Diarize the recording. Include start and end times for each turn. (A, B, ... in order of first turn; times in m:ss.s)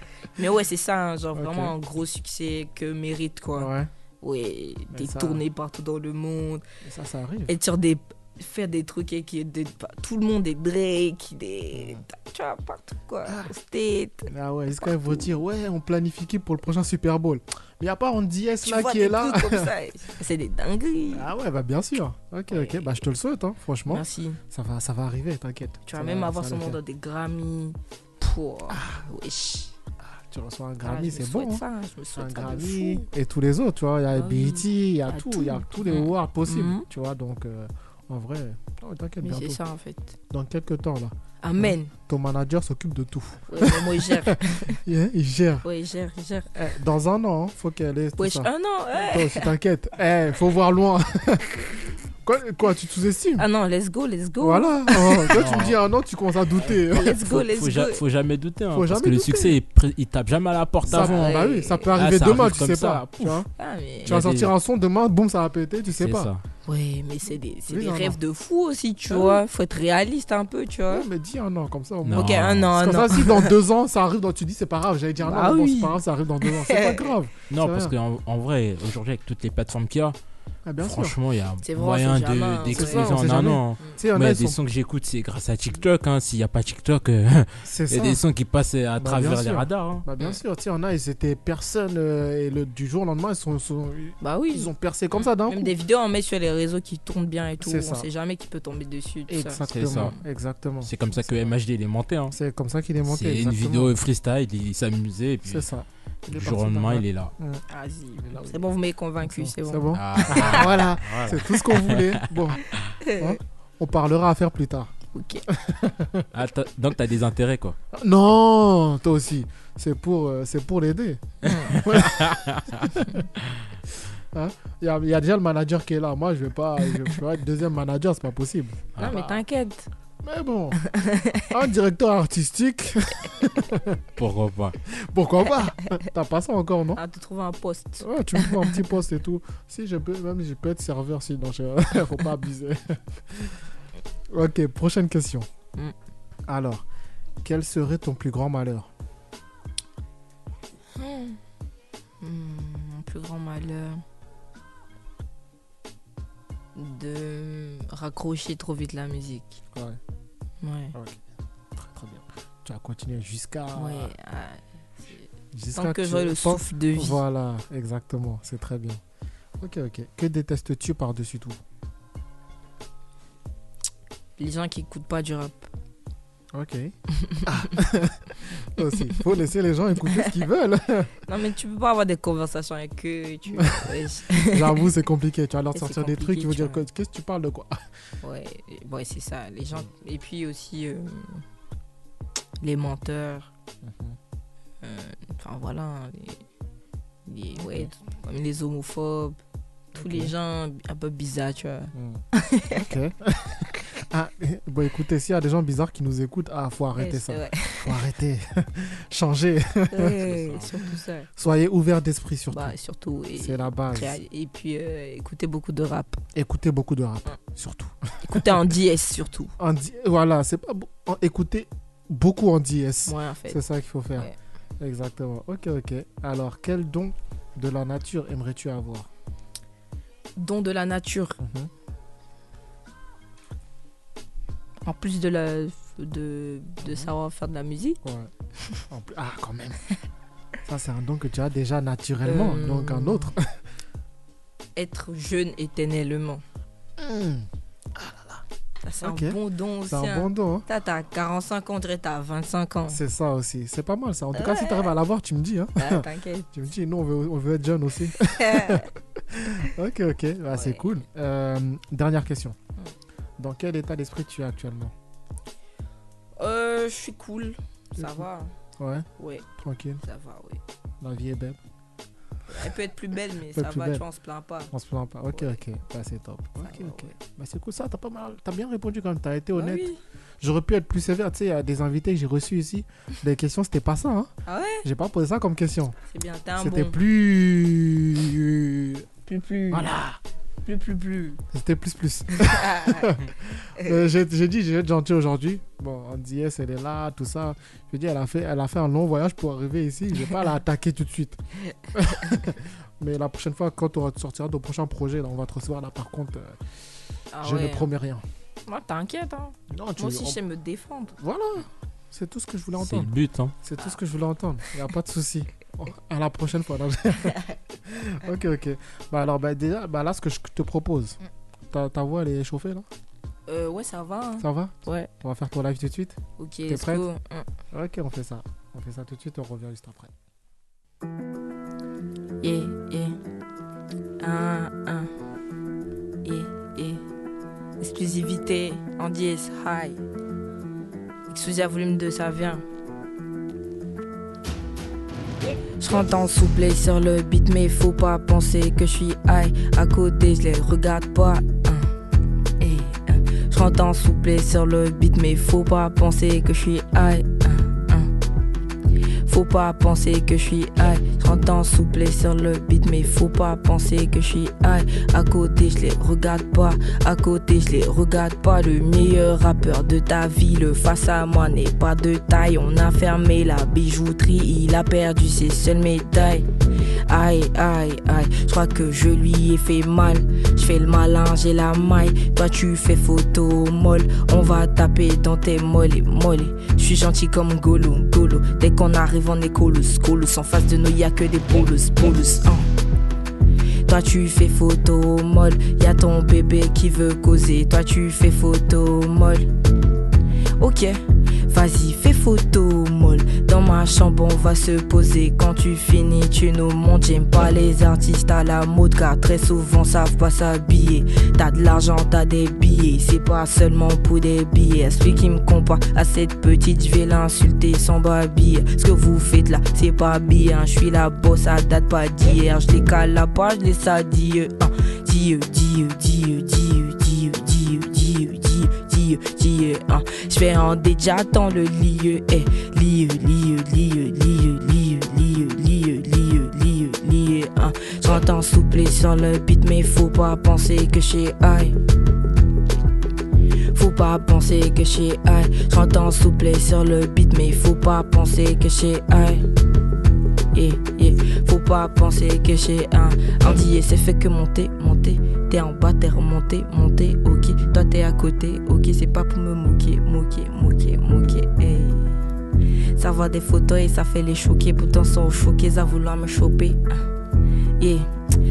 0:00.4-0:03.7 A
0:01.4-0:01.7 B
0:03.6-0:03.9 B
0:04.2-0:06.6 A
0:04.9-0:05.4 B
0:06.8-0:07.5 B
0:07.5-0:14.3 A
0:11.7-0:12.0 B
0:14.3-0:19.7 B
0:14.8-0:15.3 A
0:18.6-0:21.3 A
0:21.1-0:26.8 B
0:22.5-0:22.9 A
0:23.9-0:24.4 A
0:25.9-0:29.7 A
0:28.7-0:29.0 B
0:30.0-0:31.6 B
0:30.8-0:33.1 A
0:32.2-0:39.6 B
0:34.1-0:36.9 A
0:39.2-0:40.2 A
0:40.3-0:45.6 B
0:41.4-0:41.9 A
0:43.5-0:44.8 A
0:45.6-0:46.5 A
0:46.6-0:53.5 B
0:48.2-0:49.5 A
0:53.4-0:55.4 A
0:54.4-0:57.2 B
0:55.3-0:55.8 C
0:56.9-0:58.0 A
0:57.2-1:01.3 C
0:58.7-0:59.6 B
1:00.8-1:03.5 B
1:00.9-1:01.9 A
1:02.0-1:03.4 C
1:03.6-1:04.1 A
1:04.0-1:06.3 B
1:04.1-1:04.5 C
1:06.0-1:06.4 C
1:06.7-1:11.1 A
1:07.7-1:08.2 B
1:09.1-1:09.4 B
1:10.9-1:18.0 B
1:12.0-1:12.7 C
1:12.1-1:13.5 A
1:15.2-1:17.1 A
1:17.5-1:20.2 C
1:20.6-1:21.2 B
1:20.8-1:30.0 C
1:21.6-1:23.3 A
1:22.7-1:24.6 B
1:27.6-1:28.2 B
1:29.0-1:35.7 B
1:34.2-1:40.2 A
1:37.6-1:38.1 B
1:39.3-1:41.5 B
1:39.7-1:40.2 C
1:40.8-1:42.4 C
1:42.3-1:43.9 B
1:43.0-1:45.7 C
1:45.5-1:47.6 B
1:46.3-1:47.3 C
1:47.7-1:50.6 A
1:48.2-1:48.6 B
1:49.2-1:54.9 B
1:49.9-1:52.8 C
1:53.0-1:53.4 A
1:55.1-1:55.5 A
1:55.5-1:56.3 B
1:56.3-1:57.8 C
1:57.9-2:03.2 B
2:01.4-2:01.8 A
2:01.5-2:03.7 C
2:04.3-2:09.4 B
2:09.0-2:09.2 C
2:09.0-2:09.9 A
2:10.2-2:10.8 B
2:10.8-2:11.5 A
2:11.5-2:14.0 B
2:14.2-2:14.8 C
2:14.9-2:17.0 B
2:17.0-2:18.8 A
2:18.0-2:23.6 B
2:24.3-2:25.5 B
2:26.5-2:26.9 B
2:27.4-2:28.9 B
2:31.0-2:31.4 A
2:32.2-2:34.0 A
2:36.8-2:39.6 A
2:39.7-2:40.0 B
2:40.6-2:40.9 A
2:40.9-2:41.2 B
2:41.8-2:44.1 B
2:43.8-2:47.2 A
2:45.5-2:49.0 B
2:49.6-2:51.6 B
2:54.4-2:55.7 A
2:56.5-3:01.2 B
3:01.3-3:04.8 A
3:03.6-3:07.8 B
3:05.7-3:06.8 A
3:08.2-3:11.4 A
3:12.6-3:13.5 A
3:13.8-3:14.2 B
3:14.8-3:16.4 A
3:17.3-3:19.4 A
3:17.6-3:17.9 B
3:19.9-3:22.8 A
3:20.0-3:20.3 B
3:22.0-3:22.2 B
3:22.8-3:30.2 B
3:27.0-3:28.0 A
3:29.9-3:31.3 A
3:30.3-3:30.7 C
3:31.4-3:32.7 B
3:32.5-3:36.2 A
3:33.4-3:34.2 B
3:36.4-3:38.6 B
3:38.2-3:39.5 A
3:39.6-3:49.1 B
3:43.1-3:43.6 A
3:50.4-3:51.4 A
3:51.4-3:51.7 B
3:54.8-3:58.0 A
3:56.8-3:57.1 B
3:58.0-3:58.3 B
3:58.9-3:59.8 B
4:00.7-4:03.5 B
4:02.2-4:03.3 A
4:04.8-4:06.4 A
4:07.0-4:08.4 B
4:08.8-4:13.0 A
4:09.0-4:10.7 B
4:12.9-4:22.6 B
4:14.4-4:14.9 A
4:15.8-4:16.5 A
4:18.2-4:18.9 A
4:20.5-4:21.0 A
4:23.4-4:24.9 B
4:26.4-4:28.5 A
4:28.0-4:28.2 B
4:28.8-4:30.0 B
4:29.2-4:29.5 A
4:30.0-4:30.6 A
4:31.0-4:31.6 B
4:32.5-4:34.7 A
4:33.5-4:34.0 B
4:34.7-4:39.9 B
4:35.3-4:35.6 A
4:36.6-4:37.1 A
4:39.6-4:40.0 A
4:40.4-4:44.3 B
4:44.5-4:44.8 A
4:44.8-4:46.0 B
4:46.1-4:47.0 A
4:46.6-4:49.1 B
4:49.3-4:49.9 A
4:49.7-4:50.2 B
4:50.7-4:51.4 A
4:51.5-5:01.4 B
4:52.4-4:53.1 A
5:01.9-5:06.6 B
5:07.3-5:07.9 A
5:07.4-5:08.2 B
5:08.7-5:11.2 A
5:09.7-5:10.4 B
5:11.2-5:21.2 B
5:12.8-5:13.5 C
5:17.3-5:17.6 A
5:21.7-5:22.9 B
5:23.5-5:25.1 A
5:24.4-5:27.1 B
5:26.4-5:27.5 A
5:27.7-5:30.1 B
5:32.4-5:33.2 A
5:34.2-5:35.1 A
5:36.2-5:37.0 A
5:37.8-5:40.0 A
5:41.3-5:42.6 A
5:45.8-5:51.9 A
5:52.6-5:58.1 A
5:59.3-6:16.5 A
6:17.1-6:32.7 A
6:33.9-6:39.5 A
6:40.6-7:21.8 A
7:23.7-7:29.5 A
7:30.5-7:42.2 A
7:43.0-7:47.0 A
7:47.8-7:48.1 A